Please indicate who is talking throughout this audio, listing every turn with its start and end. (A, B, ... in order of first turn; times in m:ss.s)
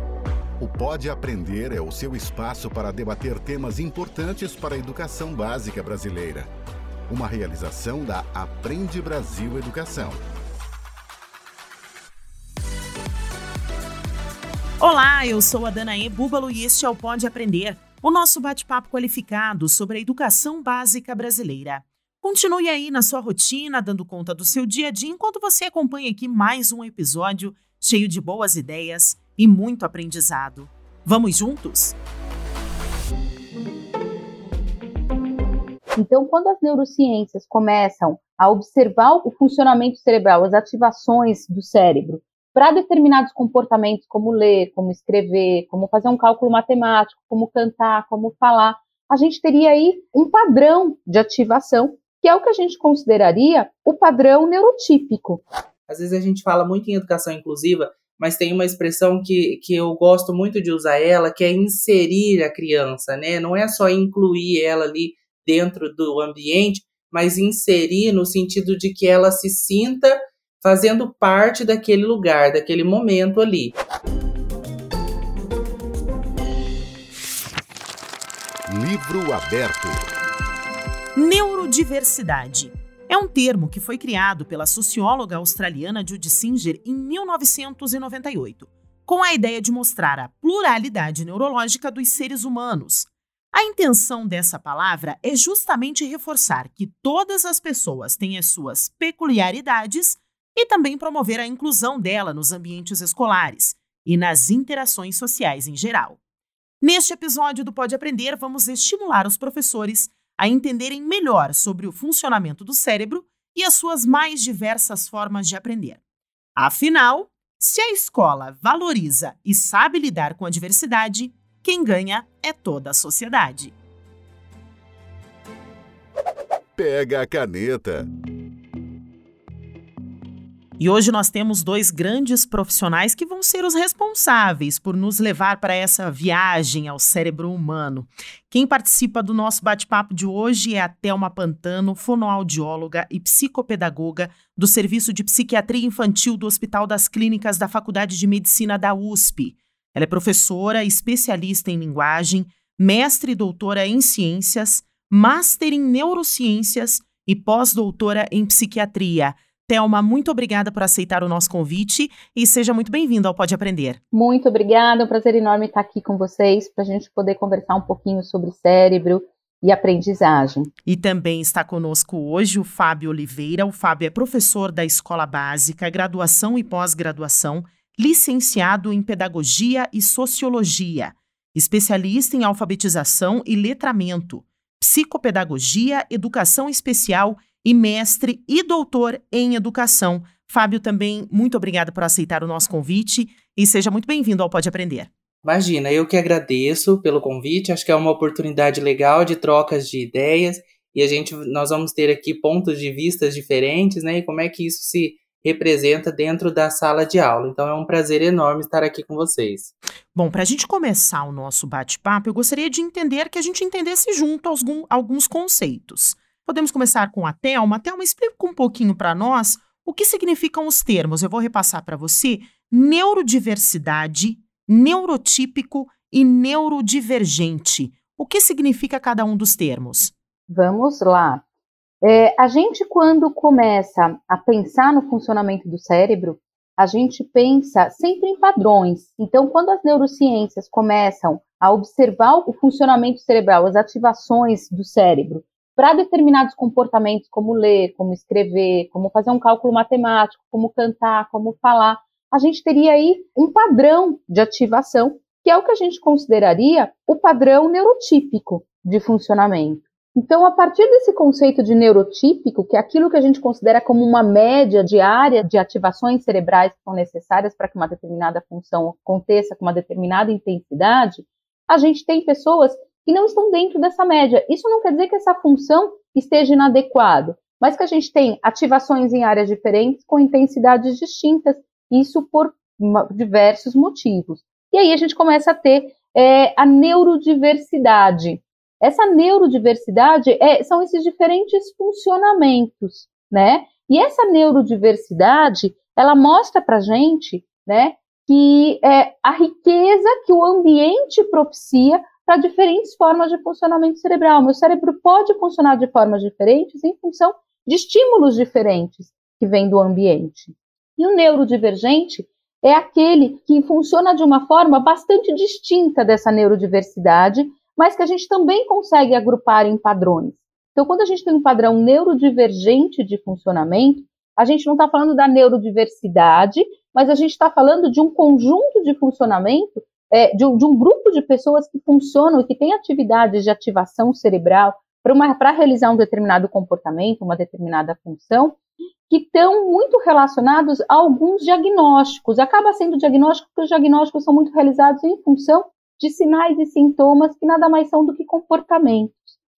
0:00.6-0:06.5 A
0:07.1-0:10.2 A
0:14.8-0:32.0 B
0:36.0-0:55.4 C
0:55.9-1:13.7 D
1:18.7-1:20.0 A
1:21.2-1:46.2 B
1:46.8-1:56.0 B
1:56.6-2:03.7 B
2:06.8-2:08.0 A
2:10.8-2:44.0 B
2:44.1-2:50.7 C
2:50.8-3:15.1 B
3:15.4-3:29.7 D
3:30.1-3:50.1 B
3:50.5-3:51.4 C
3:52.0-5:38.6 C
5:39.1-5:49.2 C